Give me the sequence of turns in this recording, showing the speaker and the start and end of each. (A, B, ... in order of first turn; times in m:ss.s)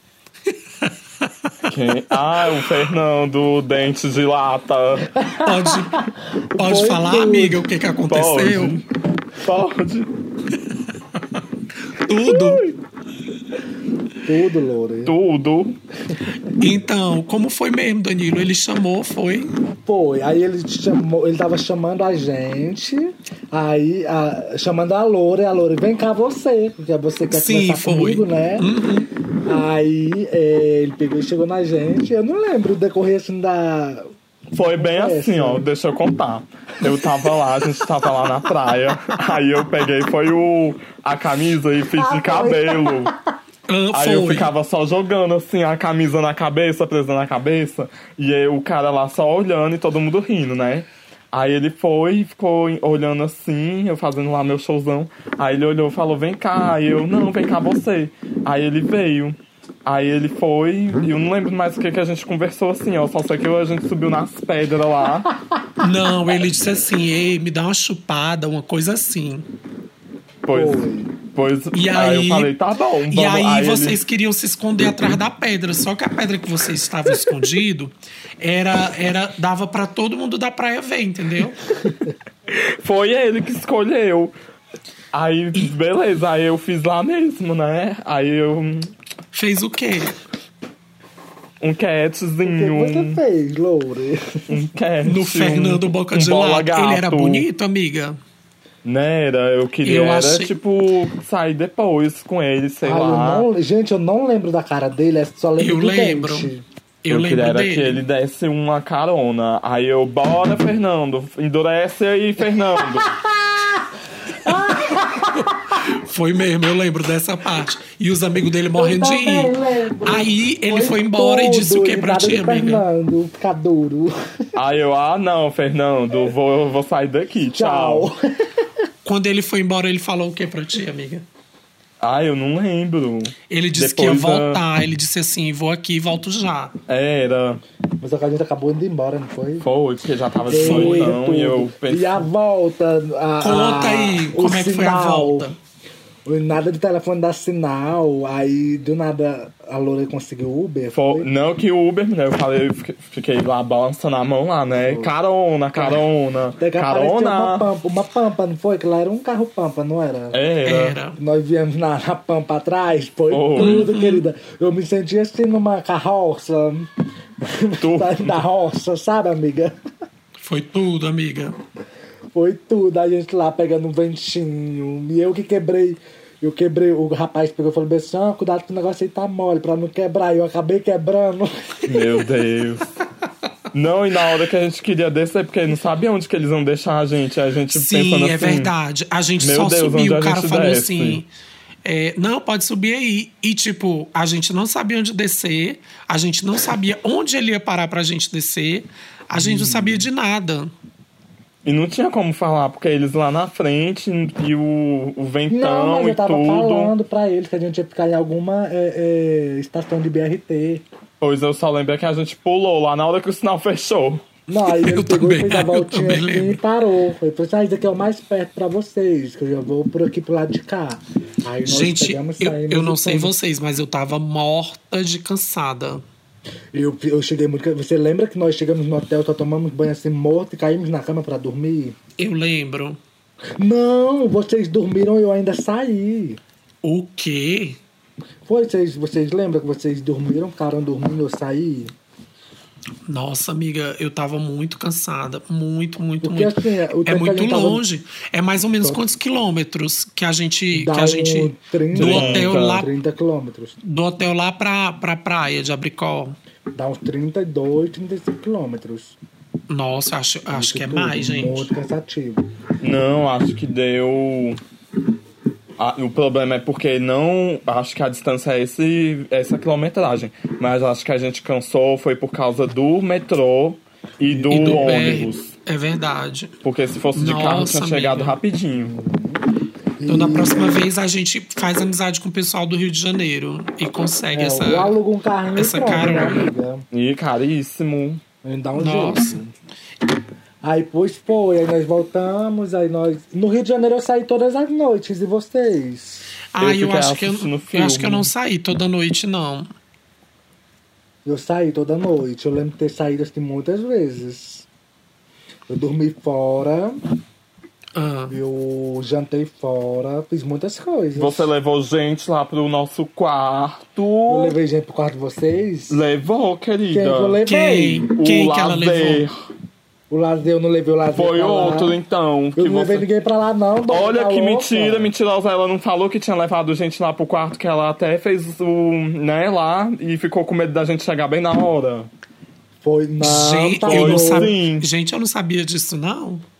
0:00.8-0:01.5 A
0:01.6-0:05.1 B
0:05.2-0:07.6 C
0:05.4-0:08.8 A
0:08.1-0:10.1 B
0:11.8-0:12.7 A
0:12.3-0:12.6 B
0:14.2-0:15.1 C
0:15.0-0:15.8 B
0:16.6-0:19.5 A
0:19.8-0:28.7 C
0:27.3-0:29.1 A
0:29.4-0:34.1 C
0:34.5-0:43.1 B
0:34.6-0:35.7 C
0:42.0-0:43.2 C
0:43.7-0:44.5 A
0:43.9-1:05.3 B
1:05.8-1:09.5 A
1:10.4-1:14.0 B
1:10.5-1:11.1 C
1:11.7-1:12.5 A
1:13.1-1:21.6 A
1:22.5-1:24.3 B
1:25.1-1:28.9 B
1:29.3-1:30.2 A
1:31.6-1:33.2 B
1:32.4-1:34.5 C
1:34.5-1:37.4 B
1:35.0-1:38.2 A
1:38.8-1:43.5 B
1:39.8-1:40.5 A
1:42.8-1:46.6 C
1:45.6-1:46.5 A
1:47.0-1:48.0 A
1:47.1-1:53.2 B
1:53.0-1:55.8 C
1:55.4-2:02.8 A
1:58.8-2:04.3 C
2:04.6-2:08.1 B
2:07.5-2:08.7 C
2:09.0-2:11.2 A
2:12.0-2:14.6 B
2:13.5-2:16.7 A
2:16.9-2:17.6 B
2:18.0-2:19.6 C
2:19.6-2:22.2 B
2:20.4-2:25.5 C
2:20.5-2:21.2 A
2:23.4-2:25.6 A
2:26.2-2:31.3 C
2:30.9-2:37.7 B
2:34.7-2:35.1 C
2:35.7-2:36.0 C
2:36.6-2:40.4 C
2:40.3-2:41.0 B
2:40.6-2:41.2 A
2:41.2-2:46.9 C
2:43.3-2:43.8 B
2:43.6-2:44.2 A
2:47.4-2:49.7 C
2:47.8-2:48.4 B
2:50.4-2:51.6 A
2:52.3-3:02.3 C
3:01.9-3:02.9 B
3:03.7-3:08.7 B
3:07.7-3:11.3 A
3:09.4-3:11.2 B
3:11.8-3:20.7 A
3:19.4-3:20.0 C
3:21.6-3:26.9 B
3:25.5-3:30.8 C
3:31.2-3:34.2 B
3:34.5-3:43.3 C
3:34.7-3:36.6 A
3:41.6-3:46.0 A
3:46.7-3:52.0 C
3:52.2-3:53.0 A
3:53.6-3:56.4 C
3:56.8-3:57.8 A
3:58.4-4:01.9 C
4:03.0-4:12.9 A
4:06.2-4:07.8 C
4:08.8-4:09.0 C
4:10.7-4:13.8 C
4:11.9-4:12.8 B
4:13.8-4:16.4 A
4:16.7-4:19.2 C
4:19.7-4:21.7 A
4:20.5-4:22.4 C
4:22.8-4:24.6 B
4:25.8-4:35.5 B
4:34.3-4:35.1 C
4:34.5-4:36.5 A
4:36.6-4:39.0 B
4:37.1-4:38.4 A
4:38.8-4:39.4 C
4:40.0-4:40.8 C
4:40.1-4:45.0 A
4:44.3-4:46.8 C
4:45.6-4:46.5 A
4:46.9-4:48.2 B
4:48.4-4:49.5 C
4:48.8-4:49.4 A
4:50.6-4:56.3 C
4:56.5-4:59.7 A
4:56.6-4:58.3 B
5:01.2-5:04.6 C
5:05.7-5:07.0 C
5:07.9-5:08.4 A
5:08.3-5:11.5 C
5:11.2-5:14.6 B
5:14.3-5:16.0 C
5:15.9-5:17.4 B
5:16.9-5:18.1 C
5:17.4-5:19.2 A
5:18.1-5:19.3 B
5:20.1-5:22.0 C
5:21.1-5:23.0 B
5:22.6-5:25.1 C
5:23.9-5:32.1 B
5:32.8-5:34.5 C
5:33.2-5:36.4 A
5:33.8-5:34.9 B